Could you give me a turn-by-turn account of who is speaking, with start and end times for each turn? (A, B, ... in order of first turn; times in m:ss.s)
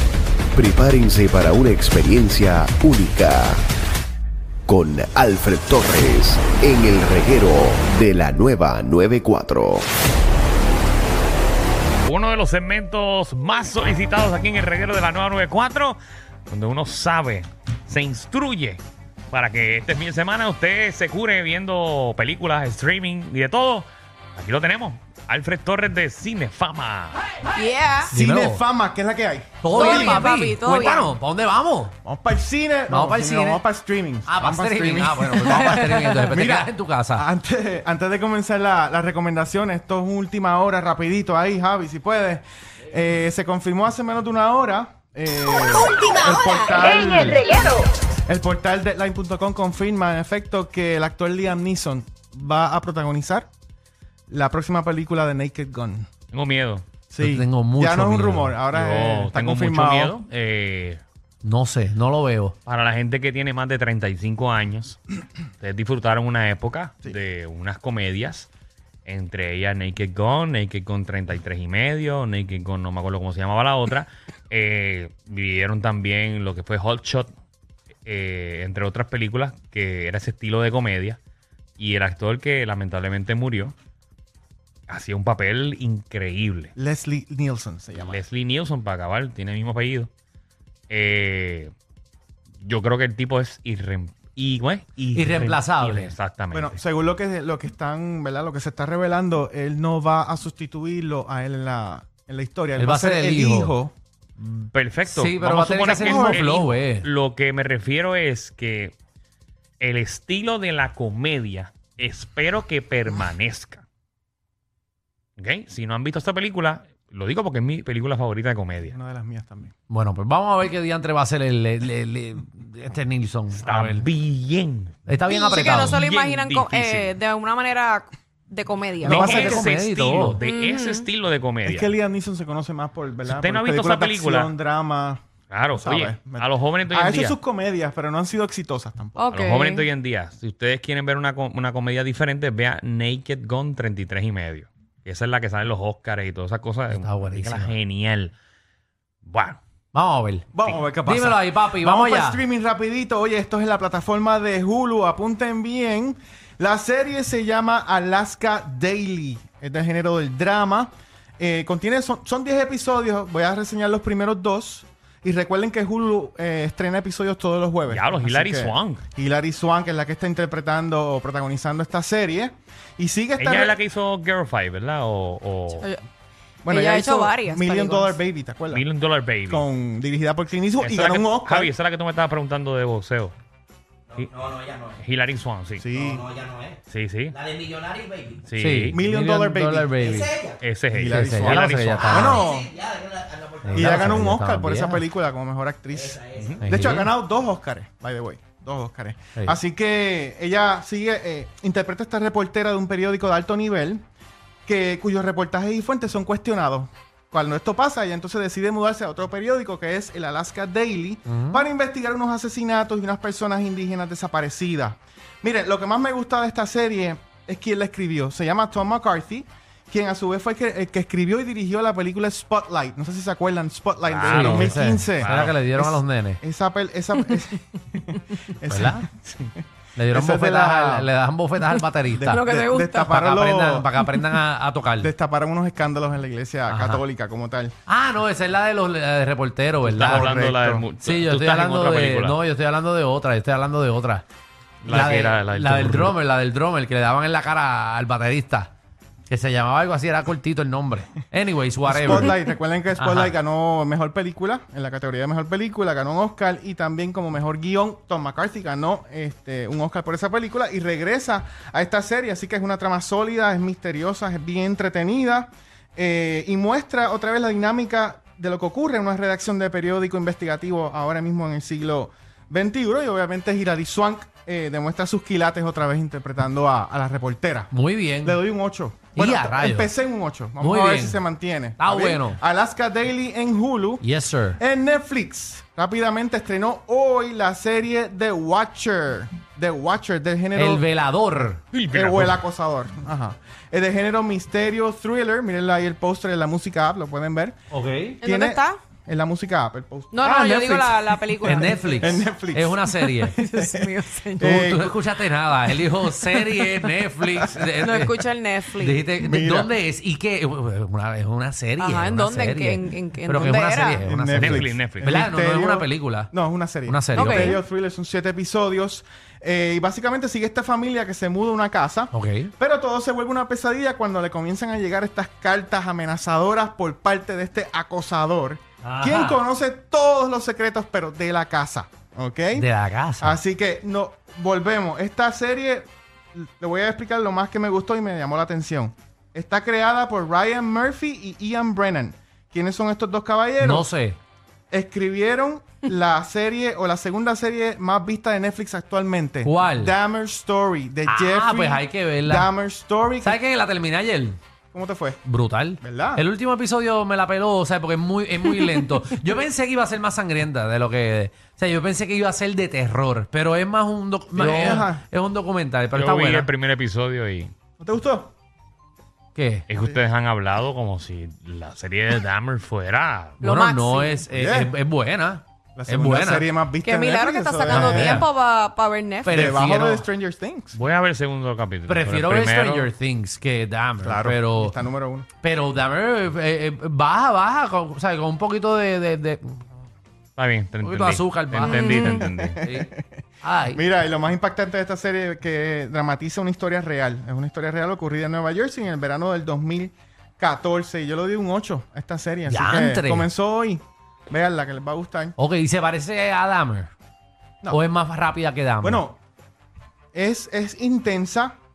0:00.5-0:03.6 A
0:04.7-0:09.8 A
0:12.0-0:27.2 B
0:27.6-0:28.1 C
0:28.1-0:30.2 D
0:28.1-0:28.6 E
0:29.6-0:31.9 E
0:29.7-0:31.1 C
0:32.0-0:53.5 D
0:32.9-0:33.6 E
0:34.2-0:37.2 E
0:54.3-0:56.1 D
0:56.3-0:56.8 B
0:57.1-1:00.1 D
0:57.2-0:58.6 E
0:58.7-1:01.0 B
1:01.4-1:02.6 E
1:02.6-1:05.0 B
1:05.6-1:08.5 B
1:09.0-1:17.3 B
1:18.0-1:21.2 B
1:21.8-1:23.7 B
1:24.9-1:26.7 B
1:26.8-1:28.2 D
1:28.0-1:30.1 B
1:30.9-1:31.7 B
1:32.6-1:36.8 B
1:35.1-1:36.1 E
1:36.5-1:43.9 D
1:42.8-1:43.7 E
1:44.4-1:48.9 B
1:45.0-1:47.1 E
1:45.9-1:46.4 D
1:49.8-1:53.8 B
1:55.4-1:58.9 B
1:58.8-1:59.7 D
1:59.9-2:04.1 E
2:03.5-2:05.0 B
2:05.0-2:06.0 E
2:05.3-2:09.2 C
2:05.8-2:07.2 B
2:09.0-2:10.4 E
2:09.0-2:11.9 B
2:09.1-2:09.6 D
2:10.4-2:11.0 C
2:11.6-2:15.2 D
2:13.3-2:14.5 B
2:15.5-2:17.4 B
2:15.7-2:19.3 D
2:19.2-2:19.9 C
2:19.3-2:28.3 B
2:26.9-2:27.7 E
2:29.2-2:29.6 B
2:29.9-2:30.5 E
2:30.5-2:53.8 D
2:31.0-2:32.4 E
2:47.9-2:49.0 B
2:53.4-2:55.9 B
2:55.8-2:56.0 C
2:56.6-2:58.8 D
2:56.7-2:58.2 C
2:58.7-2:59.6 B
2:59.5-3:01.7 D
3:00.8-3:03.3 B
3:05.0-3:05.8 B
3:05.8-3:06.3 D
3:06.2-3:06.6 F
3:06.9-3:07.4 B
3:07.7-3:08.2 F
3:08.4-3:09.0 B
3:08.6-3:10.4 E
3:08.9-3:09.9 D
3:10.6-3:12.4 B
3:10.9-3:12.7 D
3:11.1-3:12.4 E
3:12.6-3:13.6 F
3:13.6-3:15.0 E
3:13.7-3:24.0 D
3:16.4-3:16.6 B
3:16.6-3:17.1 E
3:24.6-3:49.1 D
3:31.3-3:31.6 E
3:44.0-3:45.6 B
3:44.2-3:46.4 E
3:48.7-3:49.0 E
3:50.0-3:52.4 E
3:50.1-3:51.1 D
3:52.1-3:53.9 D
3:52.3-3:53.1 C
3:53.0-3:55.1 E
3:55.0-3:57.7 D
3:56.7-3:57.0 E
3:57.9-4:00.4 E
3:59.8-4:00.8 D
3:59.9-4:02.4 B
4:01.0-4:04.2 E
4:04.8-4:06.2 B
4:04.9-4:08.7 E
4:09.3-4:12.3 E
4:11.8-4:37.7 D
4:13.0-4:13.3 E
4:37.7-4:38.4 E
4:38.2-4:44.0 D
4:39.1-4:39.9 E
4:40.6-4:41.2 E
4:41.8-4:42.4 E
4:44.0-4:44.6 E
4:44.6-4:50.8 D
4:50.5-4:51.6 E
4:51.7-4:52.4 B
4:51.9-4:57.6 D
4:57.7-4:58.2 E
4:58.2-4:58.8 C
4:58.2-5:05.0 D
5:00.1-5:02.1 C
5:01.4-5:03.4 E
5:03.4-5:04.5 C
5:04.4-5:08.1 E
5:07.3-5:08.1 D
5:07.8-5:09.0 C
5:08.8-5:17.6 E
5:09.2-5:09.7 D
5:11.8-5:14.0 C
5:14.0-5:32.7 D
5:14.3-5:15.2 B
5:17.1-5:17.6 C
5:22.1-5:22.5 E
5:28.8-5:29.4 E
5:32.5-5:33.4 E
5:33.2-5:43.9 D
5:43.6-5:44.2 E
5:44.7-5:53.4 D
5:49.4-5:49.9 E
5:51.0-5:52.5 E
5:53.2-5:54.4 E
5:54.7-5:55.2 D
5:55.2-6:06.5 E
5:55.8-5:56.2 D
6:04.3-6:05.0 D
6:04.4-6:04.8 B
6:05.9-6:07.5 B
6:07.8-6:08.3 D
6:09.3-6:09.6 E
6:09.7-6:13.4 B
6:13.4-6:16.5 E
6:13.4-6:14.2 C
6:14.3-6:14.7 D
6:15.8-6:18.2 D
6:16.8-6:19.5 C
6:17.7-6:18.2 E
6:19.2-6:20.0 E
6:19.3-6:20.7 D
6:20.7-6:22.9 B
6:21.9-6:24.8 E
6:24.0-6:25.3 D
6:25.4-6:29.6 E
6:30.4-6:32.6 B
6:30.8-6:33.8 E
6:31.6-6:32.2 C
6:32.2-6:33.0 D
6:33.7-6:45.3 D
6:42.5-6:43.3 E
6:45.4-6:46.9 E
6:47.7-6:49.0 E
6:48.8-6:49.2 D
6:50.1-6:51.6 D